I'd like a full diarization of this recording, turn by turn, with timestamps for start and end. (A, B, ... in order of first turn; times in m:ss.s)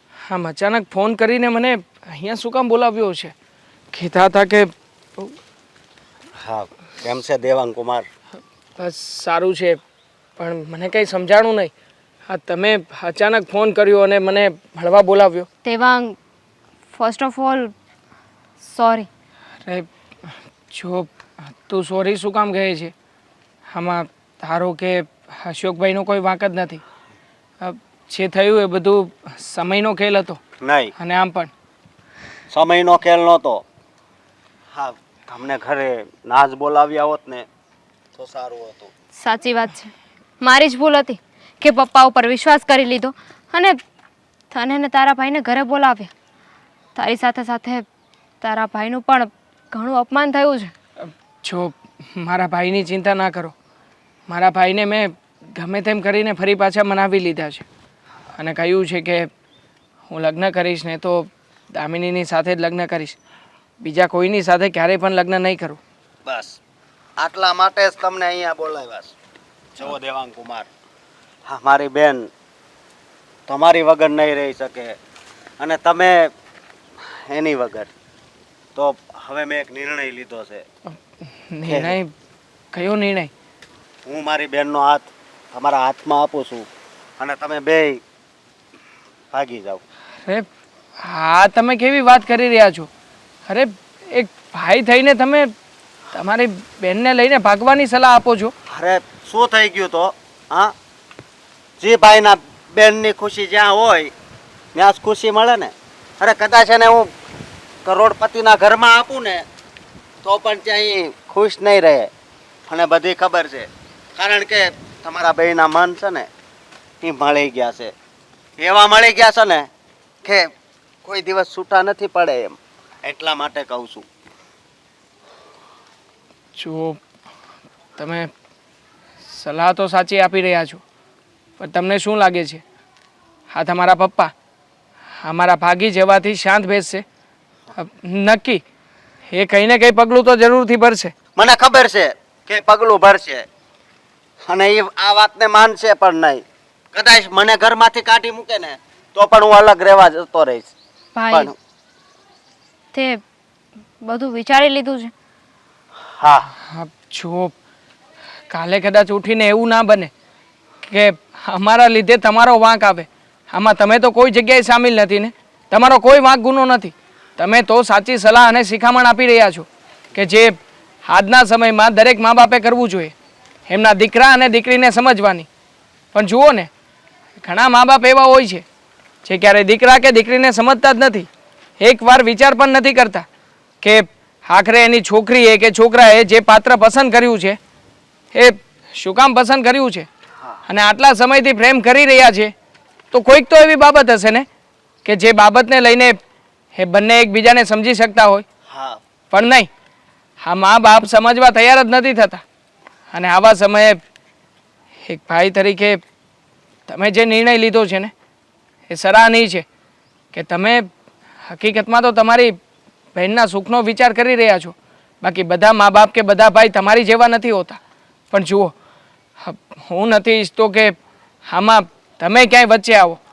0:00.3-0:03.3 A
0:03.9-0:05.3 A
0:06.4-0:08.1 B
0:08.8-0:09.8 A
0:10.4-0:11.7 A
0:12.3-0:15.5 A
0:15.6-0:16.2 C
0:16.9-0:17.7 C
0:18.6-0:19.1 C
0:20.7-0:22.9 A
0:23.7-0:26.8 A
0:27.6-0:30.4 A
0:30.6-0:30.9 B
0:31.0-0:31.5 A
0:32.5-0:33.6 B
0:34.7-0:37.5 B
0:38.2-0:38.9 B
0:39.2-0:43.8 C
0:44.5-0:46.1 C
0:47.0-0:47.9 C
0:48.4-0:50.7 C
0:51.0-0:53.5 A
0:54.3-0:57.7 A
0:58.4-0:59.3 A
1:00.1-1:03.2 A
1:03.8-1:05.8 A
1:06.3-1:06.6 B
1:07.2-1:09.2 B
1:09.8-1:10.7 B
1:11.5-1:12.3 B
1:13.5-1:15.0 B
1:15.6-1:16.3 B
1:17.0-1:17.9 B
1:18.8-1:20.6 B
1:21.2-1:22.1 A
1:21.7-1:22.0 B
1:22.7-1:23.3 A
1:24.1-1:26.7 B
1:27.2-1:28.0 B
1:29.3-1:29.8 B
1:31.0-1:32.9 A
1:33.5-1:35.5 A
1:36.1-1:38.5 A
1:38.7-1:40.7 B
1:41.8-1:44.1 B
1:44.8-1:47.1 B
1:47.8-1:49.5 B
1:50.2-1:52.1 B
1:52.7-1:56.3 B
1:57.0-1:57.9 B
1:58.6-1:59.7 B
2:00.2-2:00.5 B
2:01.0-2:04.1 B
2:06.6-2:07.0 A
2:08.0-2:08.3 A
2:09.2-2:10.8 A
2:11.6-2:12.6 A
2:13.5-2:14.3 A
2:15.2-2:17.0 A
2:17.8-2:18.6 A
2:19.3-2:21.1 A
2:21.4-2:23.5 B
2:24.5-2:30.7 B
2:31.2-2:31.5 C
2:32.9-2:33.2 C
2:34.0-2:35.1 C
2:36.0-2:36.5 B
2:36.6-2:37.5 A
2:38.5-2:40.1 A
2:40.8-2:53.1 A
2:53.7-2:55.5 A
2:56.1-2:56.7 A
2:57.4-2:58.6 A
2:59.2-3:01.3 A
3:01.8-3:03.2 A
3:03.8-3:07.6 A
3:08.3-3:10.1 A
3:10.7-3:12.5 A
3:13.1-3:14.4 A
3:15.0-3:16.2 A
3:16.8-3:18.4 A
3:18.7-3:19.0 B
3:19.3-3:19.7 A
3:20.4-3:22.4 A
3:23.1-3:24.0 A
3:25.0-3:26.0 A
3:26.9-3:28.1 A
3:28.9-3:29.6 A
3:30.3-3:30.9 A
3:31.5-3:32.6 A
3:33.2-3:37.8 A
3:38.3-3:38.7 A
3:39.4-3:41.0 A
3:41.5-3:43.2 A